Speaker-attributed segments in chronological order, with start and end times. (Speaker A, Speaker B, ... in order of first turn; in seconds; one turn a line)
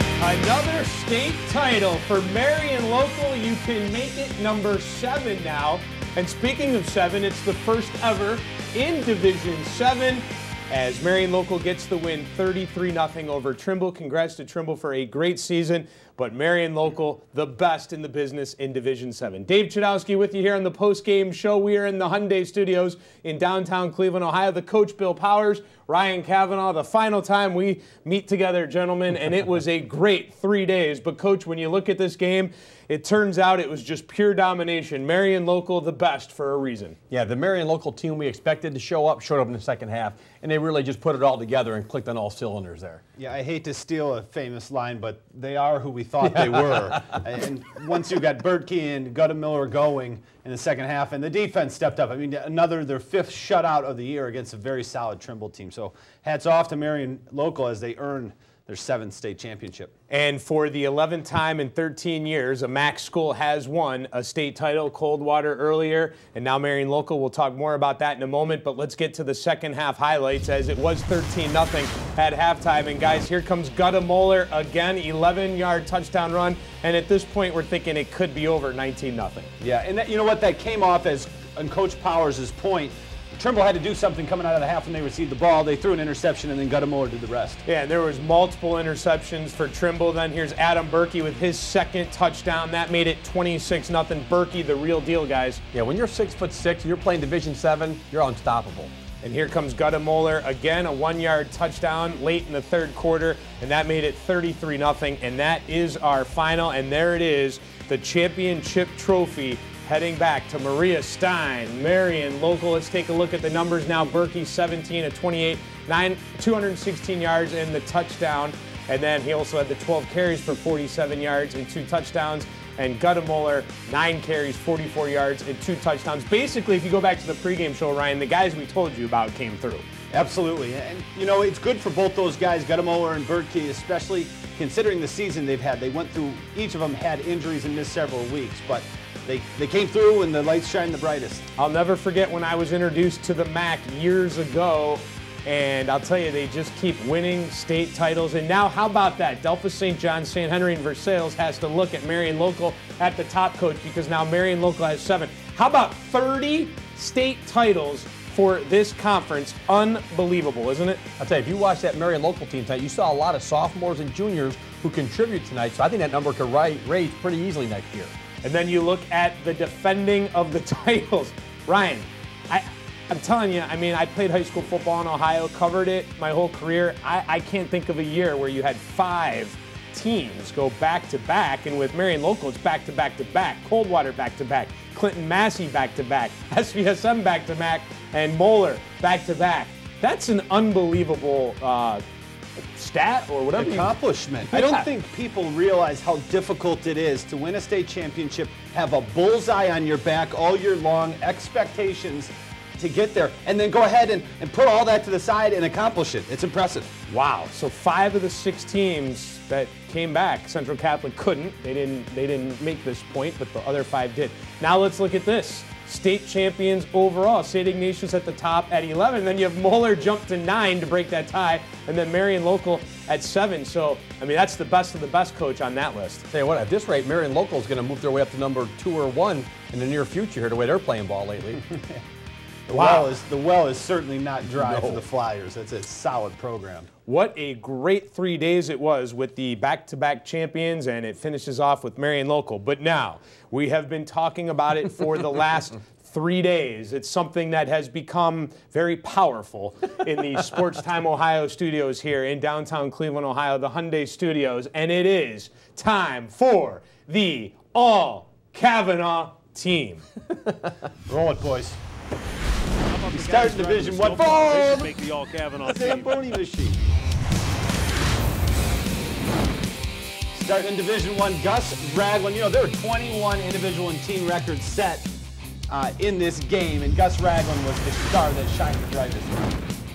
Speaker A: 0.2-37.0
Speaker B: 37.1-43.0
Speaker C: 43.2-59.9
Speaker A: 60.1-79.5
Speaker C: 79.6-87.6
Speaker A: 87.7-95.6
Speaker B: 95.7-98.9
Speaker A: 99.2-129.8
Speaker C: 130.1-141.5
Speaker A: 141.6-161.0
Speaker B: 161.2-168.1
Speaker A: 168.4-192.0
Speaker A: 192.6-194.0
Speaker C: 193.6-206.9
Speaker A: 194.5-194.9
Speaker A: 207.1-226.2
Speaker B: 226.3-231.6
Speaker C: 232.7-236.9
Speaker A: 232.7-233.1
Speaker A: 237.0-260.1
Speaker C: 261.1-261.8
Speaker D: 262.9-266.2
Speaker C: 263.1-264.9
Speaker C: 265.6-266.8
Speaker C: 270.3-275.1
Speaker C: 275.7-279.7